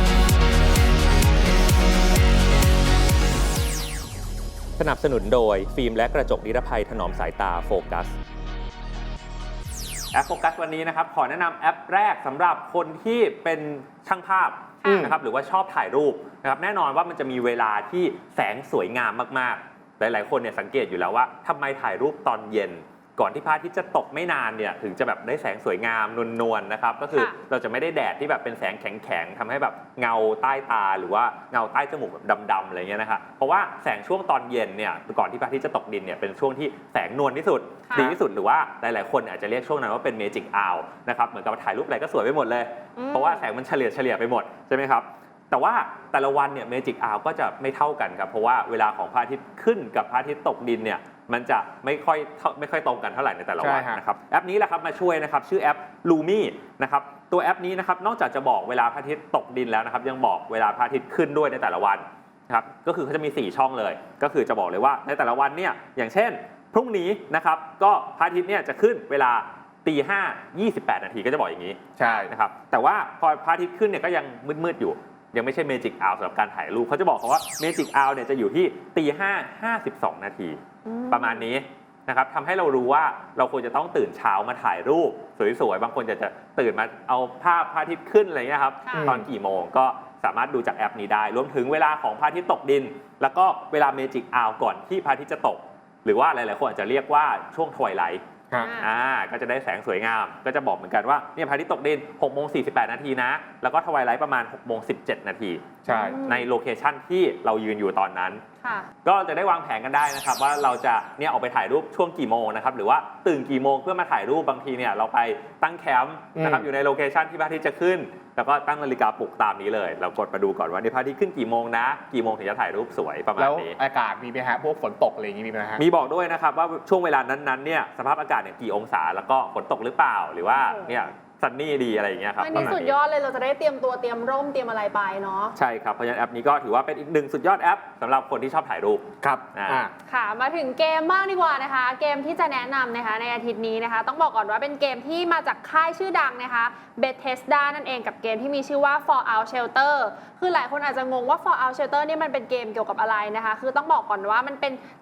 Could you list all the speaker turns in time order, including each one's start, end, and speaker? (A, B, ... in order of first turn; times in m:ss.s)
0:04.8-0:08.1 A
0:10.1-1:38.2 A
0:14.8-0:15.1 B
0:14.8-0:15.1 C
0:37.9-0:38.2 B
0:43.0-0:43.5 B
0:53.6-0:54.0 C
1:12.0-1:12.3 C
1:20.8-1:21.5 B
1:28.8-1:29.1 B
1:28.9-1:29.3 C
1:38.6-1:38.9 B
1:38.8-1:48.4 A
1:45.8-1:46.2 C
1:45.9-1:46.5 B
1:48.6-1:48.9 B
1:49.0-2:03.8 A
1:56.4-1:56.7 C
2:03.4-2:05.8 C
2:05.8-2:13.0 A
2:10.5-2:11.0 B
2:12.4-2:15.5 B
2:15.6-2:19.8 A
2:19.2-2:19.9 C
2:20.1-2:34.8 B